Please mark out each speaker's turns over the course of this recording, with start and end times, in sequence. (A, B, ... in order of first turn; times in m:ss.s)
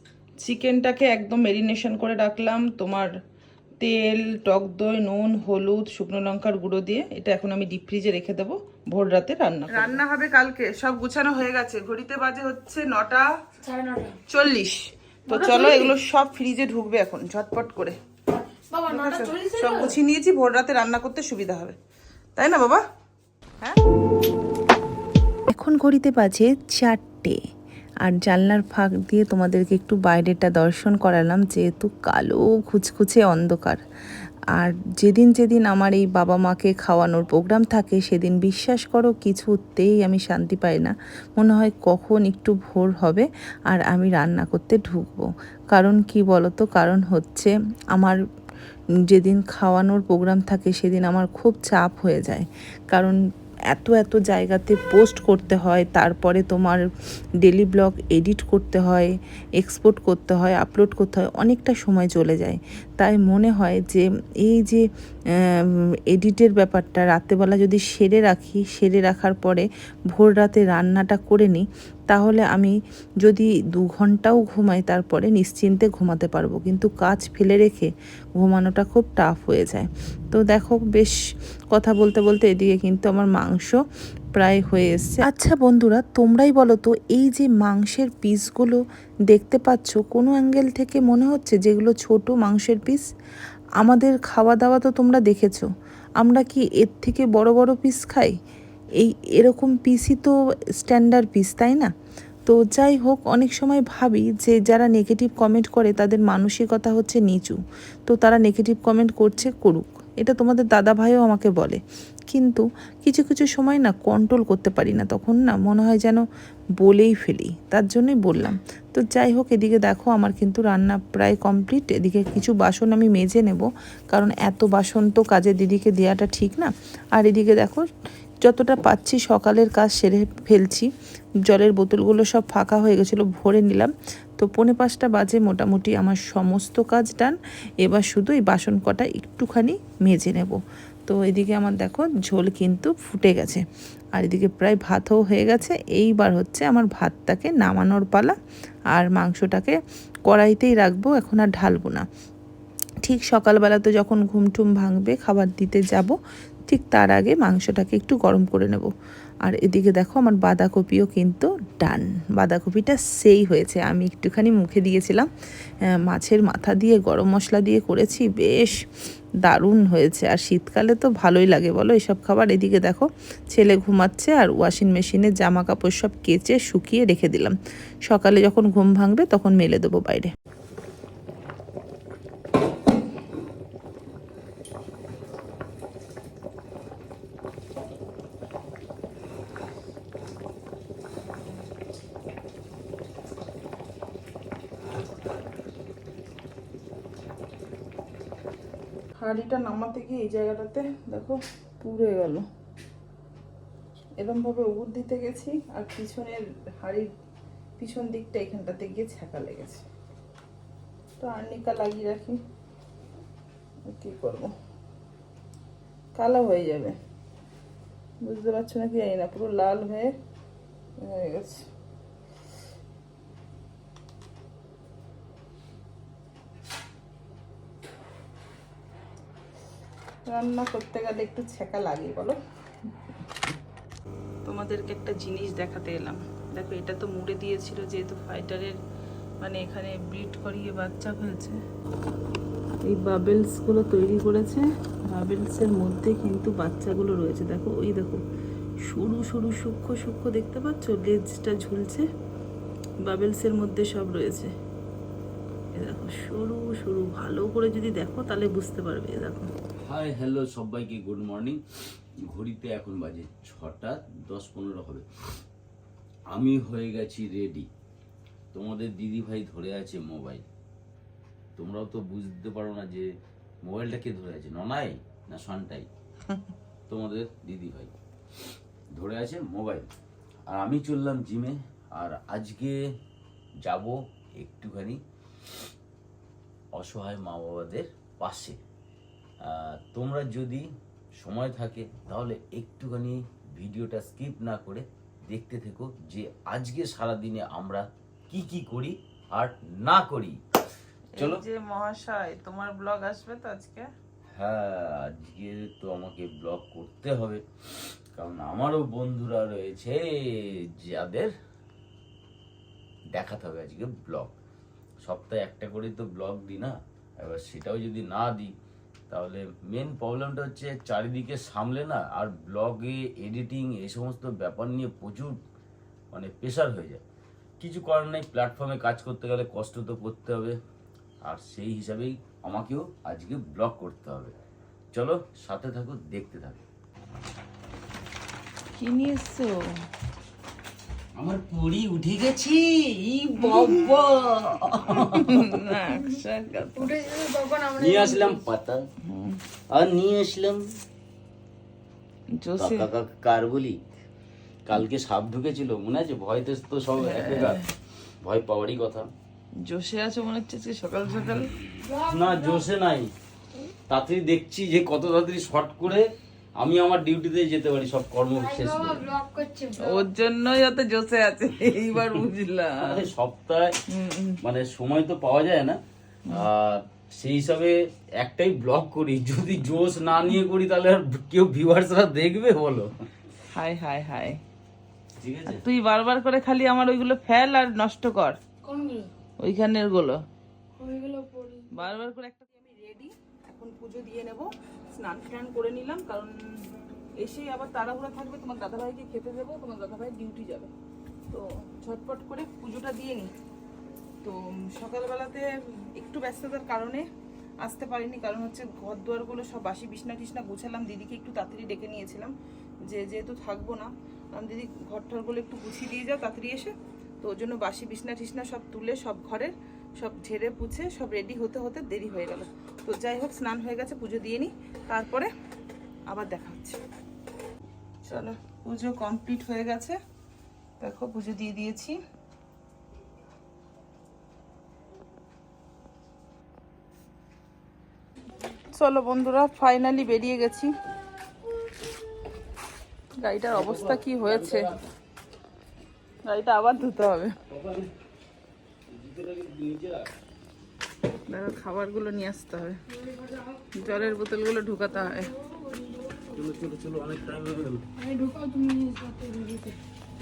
0:00.4-0:03.1 A
0:03.8-0:13.3 A
0:09.7-0:10.0 B
0:13.6-0:14.2 C
0:14.3-0:18.0 A
0:15.3-0:15.9 C
0:18.3-0:20.0 C
0:18.9-0:21.8 A
0:22.4-0:22.8 A
0:25.5-0:27.4 B
0:28.0-0:33.8 B
0:34.6-0:48.2 B
0:49.1-0:53.2 B
0:53.7-0:56.9 B
0:57.4-1:04.8 B
1:05.5-1:21.2 B
1:21.7-1:23.8 B
1:24.4-1:33.0 B
1:33.8-1:35.7 B
1:36.2-1:38.3 B
1:39.0-1:41.9 B
1:42.5-1:56.2 B
1:56.8-2:07.9 B
2:08.4-2:10.9 B
2:11.4-2:23.6 B
2:24.2-2:28.4 B
2:28.9-2:29.8 B
2:30.3-2:32.0 B
2:33.0-2:36.2 B
2:36.7-2:38.9 B
2:39.5-2:45.3 B
2:46.0-2:48.8 B
2:49.4-2:57.6 B
2:58.1-3:00.3 B
3:19.2-3:22.4 A
3:24.2-3:27.1 A
3:27.8-3:29.8 A
3:31.2-3:32.4 A
3:33.9-3:34.5 A
3:36.2-3:37.0 A
3:38.2-3:40.1 A
3:41.0-3:41.7 A
3:50.3-3:52.4 A
3:54.5-3:58.7 A
3:56.6-3:57.0 B
3:59.4-4:01.5 A
4:02.9-4:08.2 B
4:08.9-4:12.0 B
4:13.1-4:14.5 B
4:15.8-4:19.4 B
4:19.9-4:21.6 D
4:22.3-4:25.0 D
4:26.3-4:27.7 D
4:28.5-4:30.4 D
4:31.6-4:33.1 D
4:33.6-4:35.9 D
4:36.9-4:37.9 D
4:38.9-4:39.9 D
4:40.5-4:42.8 D
4:43.6-4:45.0 D
4:46.8-4:48.6 D
4:49.4-4:50.7 D
4:51.2-5:00.4 D
5:01.2-5:03.9 A
5:04.4-5:11.3 D
5:13.2-5:14.3 D
5:15.0-5:18.5 D
5:19.1-5:25.4 D
5:26.1-5:27.0 D
5:27.6-5:30.6 D
5:31.2-5:34.3 D
5:34.9-5:36.6 D
5:38.8-5:39.6 A
5:41.2-5:45.6 D
5:43.5-5:43.8 A
5:44.9-5:46.9 A
5:46.0-5:46.2 C
5:46.8-5:48.5 C
5:47.8-5:48.8 D
5:49.0-5:49.4 A
5:49.7-5:50.6 D
5:52.3-5:52.9 A
5:52.6-5:53.8 D
5:54.7-5:57.6 D
5:57.0-5:57.7 A
5:58.2-5:59.1 D
5:59.6-6:01.6 A
6:01.8-6:02.7 C
6:02.0-6:03.1 D
6:03.9-6:06.1 D
6:06.6-6:09.1 D
6:08.4-6:10.0 C
6:09.8-6:13.1 A
6:12.8-6:13.8 D
6:13.9-6:14.4 A
6:14.4-6:22.9 D
6:23.5-6:24.4 A
6:25.2-6:25.6 D
6:25.5-6:28.4 A
6:28.6-6:29.1 C
6:29.4-6:30.2 A
6:30.8-6:31.7 C
6:31.7-6:36.4 A
6:37.2-6:40.7 A
6:41.3-6:43.3 A
6:44.2-6:47.1 A
6:47.6-6:52.3 A
6:52.9-7:05.3 A
7:06.1-7:06.8 A
7:08.0-7:10.0 A
7:10.8-7:12.0 A
7:18.7-7:20.7 A
7:23.2-7:24.7 A
7:23.5-7:24.8 D
7:26.3-7:27.4 A
7:27.5-7:27.9 D
7:28.9-7:30.1 D
7:31.3-7:32.8 A
7:32.9-7:34.2 C
7:33.7-7:35.3 A
7:34.9-7:36.4 C
7:36.3-7:37.8 D
7:38.0-7:39.8 C